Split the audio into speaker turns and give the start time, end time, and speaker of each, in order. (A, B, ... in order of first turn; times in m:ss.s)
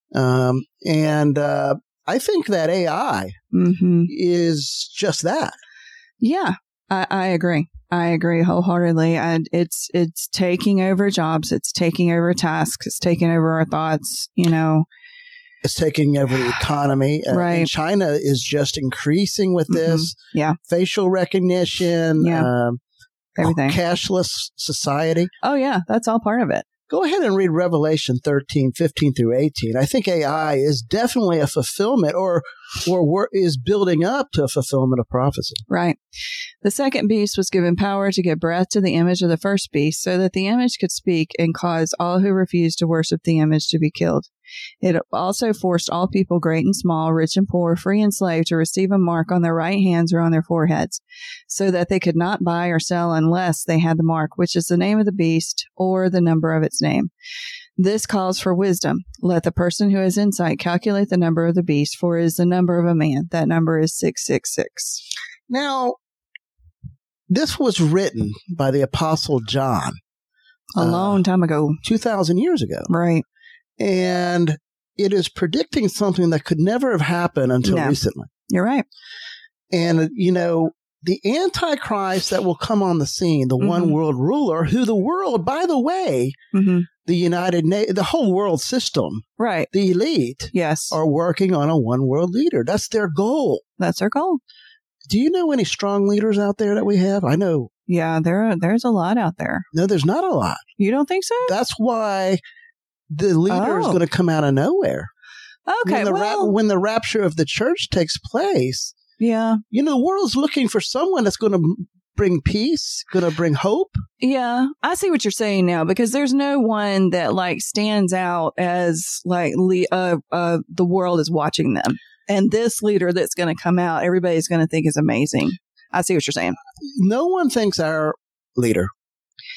0:00.1-0:03.4 A
0:03.5-0:04.1 B
0:04.1-0:05.5 A
0:06.2-0:14.8 B
0:15.6-0:22.8 A
0:17.3-0:17.7 B
0:19.7-0:20.6 B
0:22.2-0:22.5 B
0:23.4-0:23.8 B
0:23.4-0:25.3 A
0:25.4-0:26.6 B
0:26.9-0:35.6 A
0:35.7-0:36.0 B
0:36.6-0:44.3 B
0:44.8-0:57.1 B
0:57.8-1:05.0 B
1:05.5-1:06.0 A
1:07.3-1:10.0 A
1:10.8-1:11.8 B
1:10.8-1:11.2 A
1:11.8-1:12.9 A
1:12.9-1:13.2 B
1:13.8-1:18.3 A
1:17.6-1:18.8 B
1:19.7-1:26.3 A
1:23.6-1:24.0 B
1:26.5-1:26.9 B
1:27.0-1:33.6 A
1:29.4-1:29.7 B
1:30.5-1:31.0 B
1:33.8-1:34.4 B
1:35.1-1:37.7 A
1:37.9-1:39.6 B
1:39.7-1:40.6 A
1:40.8-1:41.5 B
1:41.4-1:42.4 A
1:43.1-1:45.1 A
1:43.5-1:44.0 B
1:45.7-1:46.5 B
1:45.8-1:48.9 A
1:49.2-1:49.6 B
1:49.7-1:54.0 A
1:54.2-2:06.6 B
2:06.8-2:08.9 A